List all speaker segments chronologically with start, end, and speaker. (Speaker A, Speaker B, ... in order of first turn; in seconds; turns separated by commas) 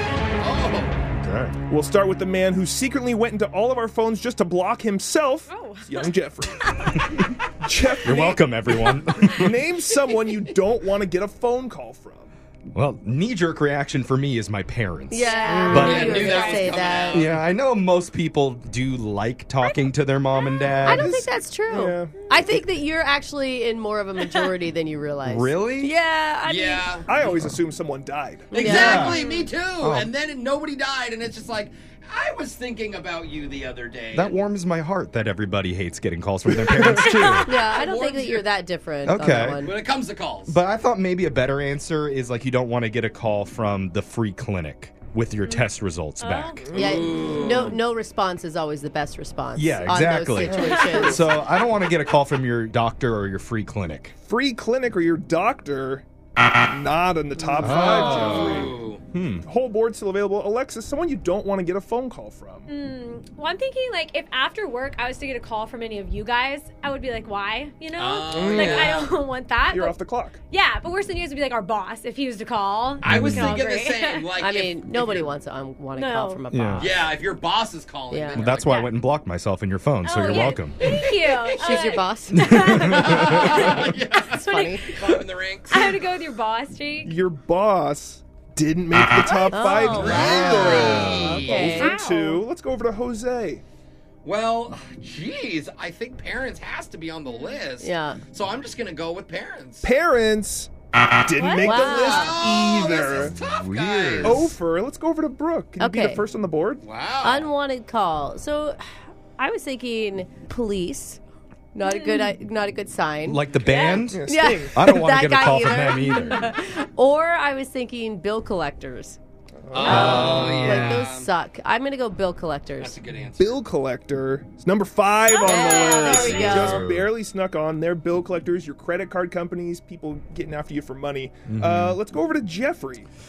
Speaker A: 0.4-1.0, Speaker B: 1.2-1.6, Speaker C: 1.7-7.1, Speaker D: 5.5-6.1, Speaker D: 6.6-6.9, Speaker C: 7.6-8.4, Speaker B: 8.0-9.6, Speaker C: 9.3-12.3, Speaker B: 12.7-16.3, Speaker E: 15.1-17.4, Speaker D: 15.2-16.7, Speaker A: 15.7-17.3, Speaker B: 17.1-21.1, Speaker C: 20.8-22.2, Speaker E: 20.8-27.0, Speaker B: 25.2-25.9, Speaker A: 26.4-27.1, Speaker C: 27.1-28.8, Speaker B: 27.2-27.5, Speaker A: 28.5-34.4, Speaker E: 28.5-29.1, Speaker B: 28.6-29.2, Speaker D: 29.0-29.5, Speaker B: 29.8-30.1, Speaker B: 34.1-37.6, Speaker C: 36.6-37.2, Speaker D: 36.9-37.5, Speaker E: 37.4-39.8, Speaker A: 37.5-38.5, Speaker B: 39.0-39.7, Speaker A: 39.5-40.6, Speaker B: 40.5-46.7, Speaker D: 46.2-46.8, Speaker A: 46.7-47.8, Speaker E: 46.7-51.3, Speaker B: 49.5-54.1, Speaker C: 50.5-51.2, Speaker C: 54.2-56.0, Speaker C: 56.6-58.8, Speaker B: 57.6-59.5, Speaker A: 57.8-59.0, Speaker C: 59.4-62.7, Speaker D: 62.7-70.0, Speaker A: 68.0-69.1, Speaker C: 68.3-68.8, Speaker C: 69.7-70.4, Speaker D: 70.5-74.3, Speaker A: 73.0-75.2, Speaker B: 73.0-73.6, Speaker E: 74.4-77.1, Speaker D: 76.0-76.4, Speaker B: 76.5-76.9, Speaker A: 76.8-78.8, Speaker E: 78.1-78.4, Speaker B: 78.3-80.8, Speaker D: 78.6-78.9, Speaker D: 80.0-83.8, Speaker A: 80.8-82.0, Speaker E: 81.6-83.2, Speaker B: 82.5-83.5, Speaker A: 82.9-86.1, Speaker E: 84.3-85.0, Speaker D: 85.7-87.2, Speaker C: 87.0-93.6, Speaker D: 89.4-89.8, Speaker E: 89.5-92.0, Speaker A: 89.9-91.8, Speaker B: 90.1-91.3, Speaker D: 91.8-92.4, Speaker A: 94.2-99.9, Speaker D: 97.3-97.5, Speaker E: 97.8-98.2, Speaker C: 99.8-103.3, Speaker D: 101.4-102.1, Speaker E: 101.6-102.4, Speaker A: 102.0-104.4, Speaker B: 103.5-104.5, Speaker C: 104.2-106.8, Speaker E: 105.8-106.2, Speaker A: 106.8-107.5, Speaker E: 107.2-108.8, Speaker E: 109.4-111.2, Speaker E: 111.7-113.5, Speaker D: 111.8-112.3, Speaker B: 113.2-116.5, Speaker D: 113.7-114.0, Speaker C: 113.8-114.7, Speaker E: 114.2-119.2, Speaker C: 119.6-120.5, Speaker A: 119.7-121.3, Speaker E: 119.8-123.0, Speaker B: 119.8-120.9, Speaker A: 122.8-123.5, Speaker C: 123.4-133.1, Speaker D: 125.3-125.9, Speaker E: 125.4-126.9, Speaker B: 126.1-127.1, Speaker B: 131.5-132.0